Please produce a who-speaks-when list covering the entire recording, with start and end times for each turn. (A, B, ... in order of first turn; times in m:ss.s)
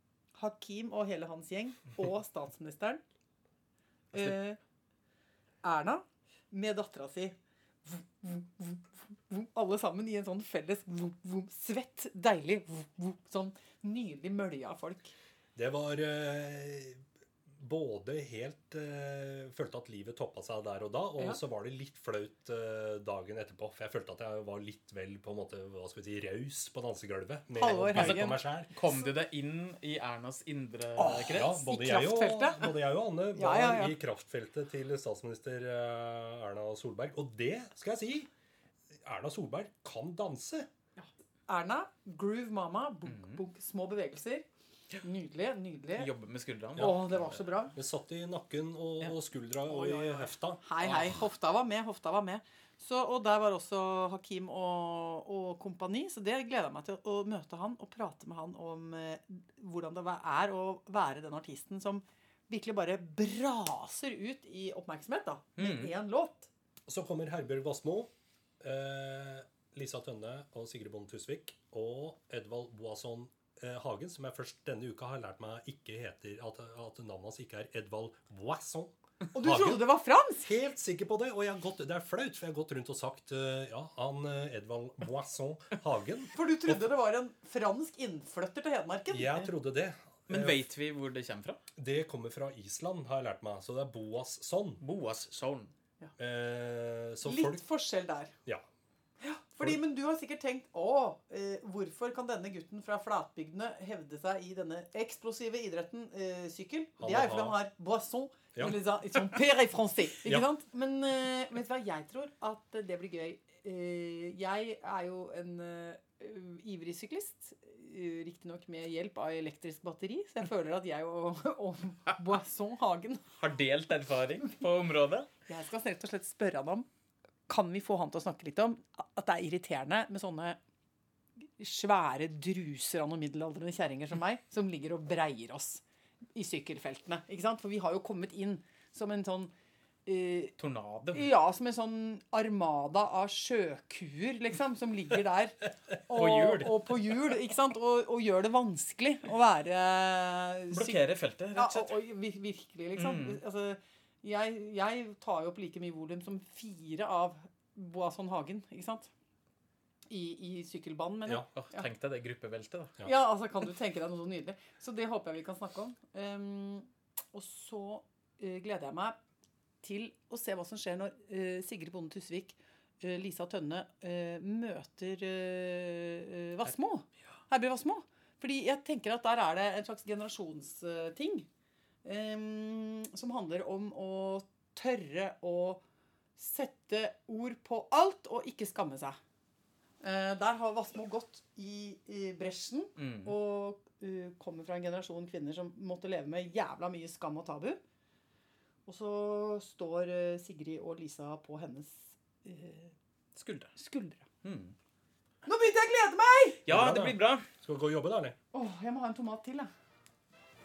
0:00.4-0:03.0 A
0:04.1-0:04.6 A
0:05.6-0:15.1 A
0:15.6-0:17.0 B
0:17.6-0:28.8 B
0:27.6-0:28.4 A
0:27.9-0:31.6 C
0:31.0-0:32.8 A
0:31.2-0:38.3 B
0:33.3-0:34.0 A
0:38.9-0:40.7 B
0:41.0-0:44.4 A
0:43.1-0:43.4 C
0:45.0-0:46.1 A
0:46.0-0:47.3 C
0:46.8-0:47.8 A
0:46.8-0:47.2 B
0:47.7-0:50.6 B
0:49.7-1:06.5 A
0:50.8-0:51.2 C
1:05.6-1:05.9 C
1:06.9-1:19.9 B
1:19.3-1:20.5 A
1:20.4-1:26.8 B
1:26.3-1:29.5 A
1:29.1-1:30.6 B
1:30.3-1:31.6 C
1:31.8-1:34.8 B
1:34.8-1:35.7 C
1:36.2-1:37.6 B
1:37.2-1:38.3 A
1:39.2-2:03.3 A
1:47.0-1:47.6 B
2:03.4-2:05.3 C
2:05.5-2:06.9 A
2:07.5-2:10.6 A
2:11.6-2:15.8 A
2:16.4-2:19.5 A
2:20.1-2:20.5 A
2:20.6-2:21.3 C
2:21.1-2:31.0 A
2:26.1-2:27.0 C
2:30.7-2:32.0 C
2:31.6-2:39.1 A
2:32.9-2:33.4 C
2:40.1-2:41.8 A
2:41.6-2:43.0 C
2:43.0-2:49.2 A
2:49.8-3:01.5 A
3:02.0-3:05.8 A
3:06.4-3:09.2 A
3:10.0-3:17.8 A
3:13.0-3:13.3 C
3:18.9-3:22.9 A
3:23.4-3:23.7 C
3:23.8-3:24.2 A
3:24.4-3:24.8 C
3:25.4-3:26.6 A
3:26.6-3:27.4 C
3:26.7-3:28.4 B
3:28.5-3:29.7 A